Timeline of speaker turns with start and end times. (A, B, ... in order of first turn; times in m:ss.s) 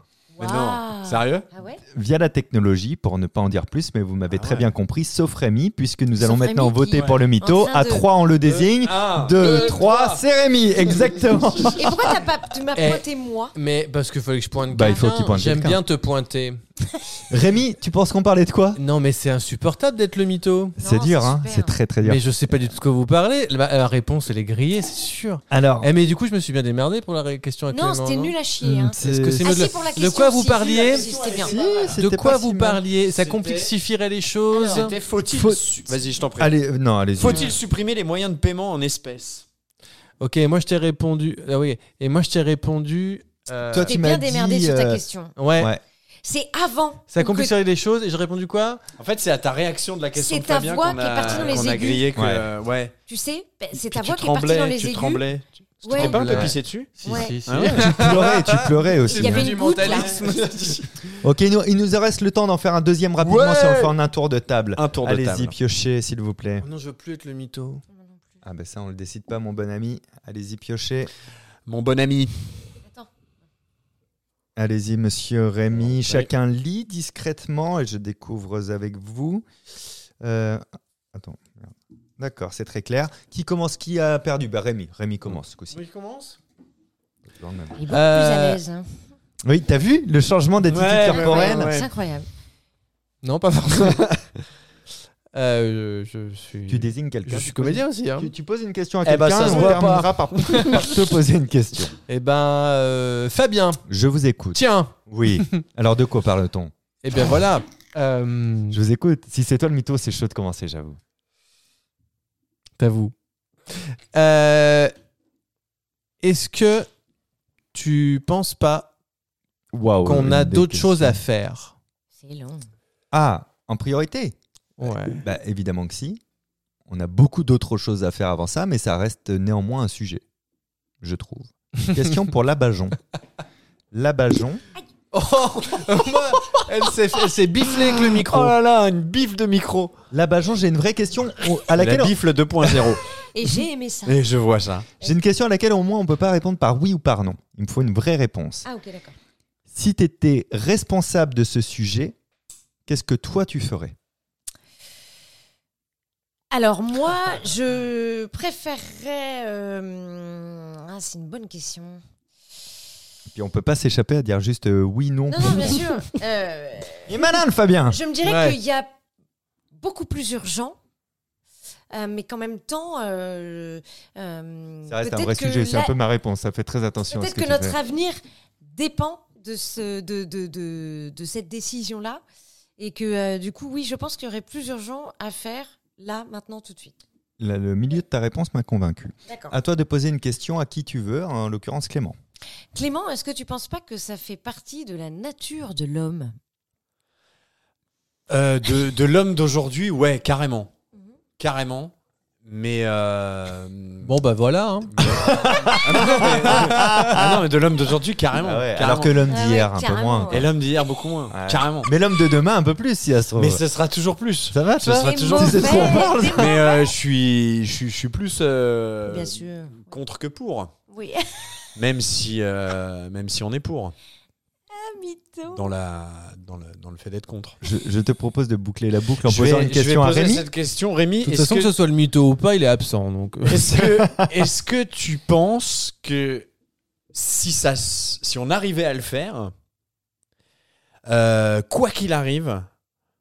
0:00.4-0:01.8 A
0:00.4-0:01.5 B
0:01.9-0:12.1 C
0:04.3-0:04.7 B
0:06.2-0:08.1 A
0:06.9-0:07.2 B
0:08.4-0:10.2 B
0:11.8-0:13.5 A
0:12.8-0:13.0 D
0:13.6-0:16.6 D
0:14.7-0:15.8 C
0:17.3-0:18.8 C
0:18.8-0:20.8 D
0:20.8-0:22.2 C
0:20.8-0:21.8 A
0:22.0-0:28.3 D
0:25.5-0:25.9 C
0:27.7-0:31.6 A
0:28.6-0:29.6 C
0:29.0-0:31.1 D
0:30.6-0:32.0 B
0:31.4-0:32.8 C
0:32.0-0:34.9 D
0:33.1-0:33.7 B
0:34.5-0:34.9 A
0:34.6-0:36.6 B
0:35.3-0:35.6 C
0:36.4-0:37.6 C
0:37.2-0:39.4 B
0:40.2-0:43.9 D
0:43.7-0:45.0 C
0:43.8-0:45.4 A
0:45.4-0:45.7 D
0:45.6-0:45.8 C
0:46.2-0:47.6 A
0:47.1-0:48.8 D
0:49.0-0:53.0 B
0:50.2-0:52.1 A
0:52.2-0:52.5 C
0:53.1-0:55.2 A
0:53.8-0:58.2 B
0:55.8-0:57.4 A
0:55.9-1:00.9 D
0:57.6-0:59.6 C
0:59.1-1:00.2 A
0:59.8-1:00.8 B
1:01.2-1:06.7 C
1:03.2-1:04.0 B
1:04.8-1:05.5 B
1:06.6-1:07.8 D
1:07.9-1:08.2 A
1:08.4-1:11.1 C
1:11.7-1:12.4 B
1:14.6-1:19.5 C
1:15.8-1:16.3 B
1:20.2-1:20.6 C
1:21.1-1:25.8 C
1:25.7-1:26.4 D
1:27.3-1:27.8 C
1:27.8-1:29.0 A
1:29.4-1:31.7 C
1:30.7-1:31.9 B
1:31.1-1:32.3 A
1:33.2-1:34.2 D
1:35.3-1:38.3 D
1:36.7-1:42.0 C
1:39.0-1:40.9 B
1:39.4-1:39.8 D
1:40.6-1:40.8 D
1:42.1-1:43.8 D
1:43.9-1:46.7 C
1:44.5-1:45.6 D
1:47.0-1:48.8 D
1:48.7-1:51.0 C
1:52.8-1:53.1 D
1:53.7-1:54.9 D
1:56.2-1:56.9 D
1:57.7-1:58.9 D
1:59.7-2:01.2 C
2:00.0-2:01.7 D
2:02.2-2:02.7 A
2:03.1-2:04.4 C
2:04.8-2:05.2 D
2:05.2-2:06.2 C
2:06.9-2:10.2 C
2:11.0-2:13.0 C
2:13.9-2:14.6 C
2:15.1-2:18.6 D
2:17.7-2:20.0 B
2:20.1-2:22.2 C
2:21.8-2:23.0 B
2:23.3-2:24.2 A
2:24.1-2:24.9 B
2:25.0-2:28.7 C
2:28.6-2:29.2 A
2:29.7-2:32.2 C
2:32.9-2:34.0 C
2:36.5-2:42.0 A
2:43.3-2:45.9 C
2:45.3-2:47.3 A
2:47.1-2:48.0 C
2:47.9-2:48.9 A
2:48.2-2:48.6 D
2:49.8-2:50.8 A
2:51.9-2:55.9 A
2:54.9-2:57.8 C
2:57.1-3:02.2 A
3:02.8-3:07.0 A
3:07.4-3:12.2 C
3:09.3-3:09.5 A
3:12.7-3:16.3 A
3:18.3-3:20.7 B
3:21.4-3:21.9 B
3:22.4-3:24.2 B
3:24.0-3:24.9 D
3:24.9-3:29.2 B
3:25.0-3:27.4 C
3:26.0-3:26.9 D
3:28.4-3:30.5 C
3:29.3-3:30.5 A
3:30.3-3:31.9 B
3:31.3-3:33.6 C
3:33.4-3:40.7 B
3:34.5-3:36.6 C
3:35.0-3:36.9 A
3:39.0-3:39.9 A
3:40.9-3:41.5 A
3:41.8-3:43.9 B
3:44.7-3:45.7 A
3:45.5-3:47.6 B
3:47.6-3:50.5 C
3:49.2-3:51.7 B
3:51.2-3:53.8 D
3:53.4-3:56.5 B
3:53.8-3:54.3 C
3:57.1-3:59.5 B
4:01.1-4:02.7 B